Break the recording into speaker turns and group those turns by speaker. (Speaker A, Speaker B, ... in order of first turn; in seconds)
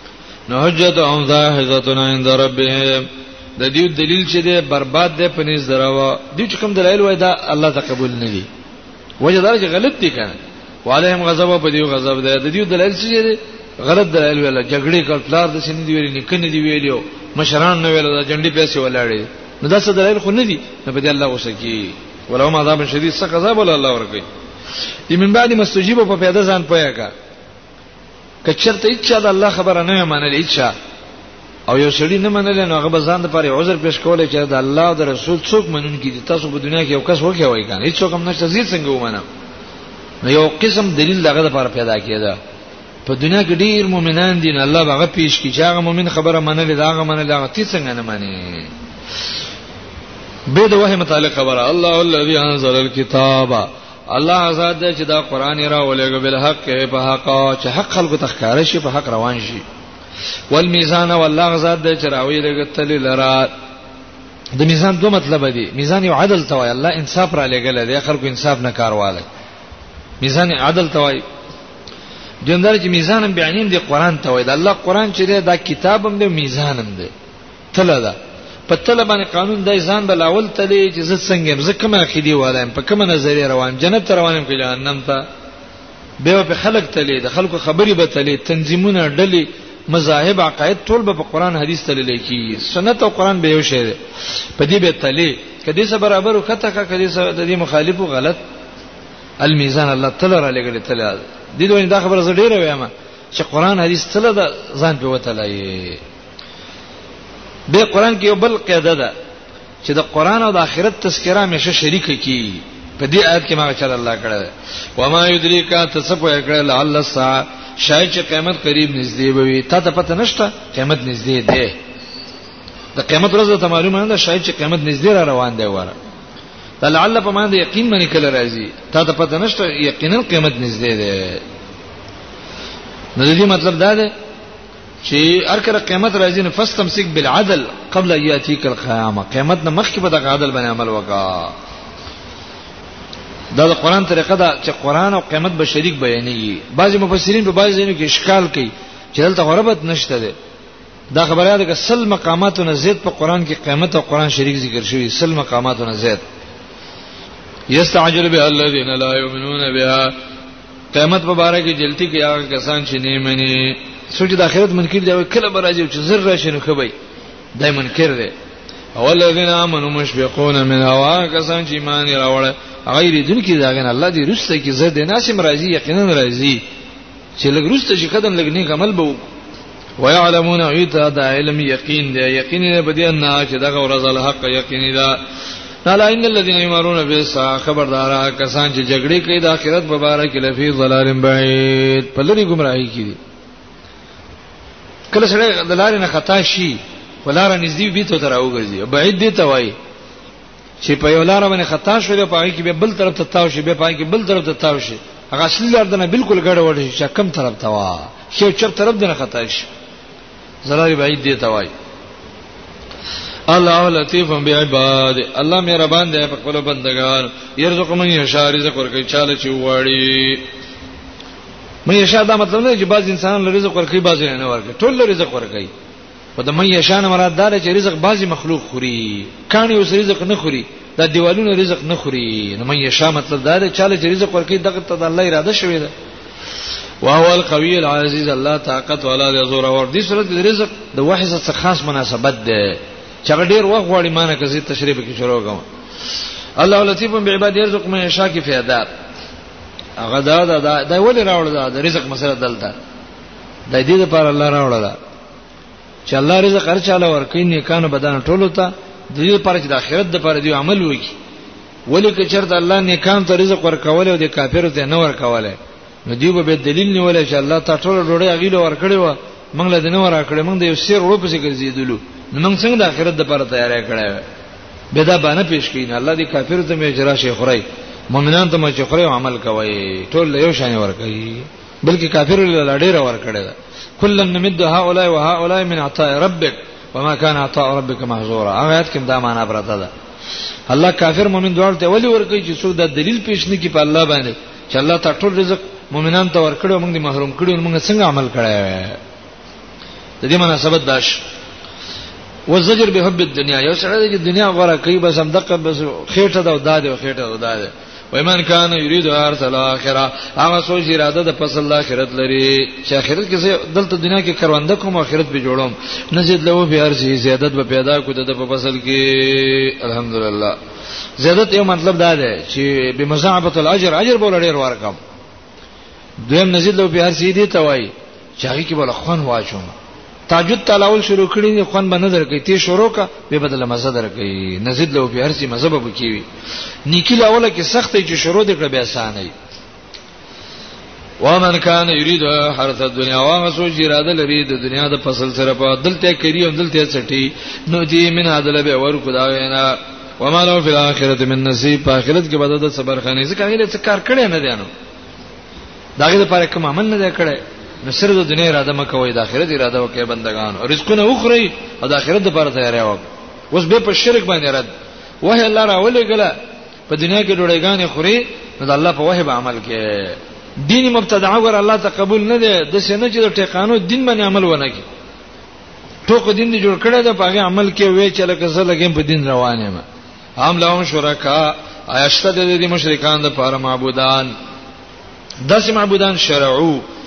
Speaker A: 0.5-8.5, 9.2-24.2, 25.1-27.1, 28.4-30.7, 31.7-39.2, 40.2-42.4, 43.0-48.7, 50.5-59.6, 60.5-63.5, 64.5-69.3, 70.2-71.2, 72.4-77.1, 77.7-78.2, 78.7-85.2, 86.2-94.0, 94.6-98.4, 99.4-106.0, 107.7-109.1, 109.8-121.8, 122.9-126.0, 126.8-131.4, 133.2-134.1, 135.0-141.5, 143.5-150.3, 151.1-156.2, 157.7-160.1, 160.9-166.9, 167.6-168.3, 168.9-176.6, 177.4-179.2, 180.0-185.2, 185.8-193.2, 195.1-199.7, 200.8-209.7, 210.6-211.7, 213.5-220.4, 221.8-225.7, 226.4-235.9, 237.0-245.6, 246.6-248.9, 250.0-252.7, 253.7-255.0, 256.1-261.1, 261.9-274.2, 274.9-289.9, 290.7-299.0, 300.2-301.2, 302.5-320.6, 321.2-325.0, 326.2-329.7, 330.3-336.2, 336.9-339.3, 341.2-354.7, 356.0-364.7, 365.2-366.3, 366.9-374.8, 376.1-379.8, 380.4-384.3, 385.4-386.8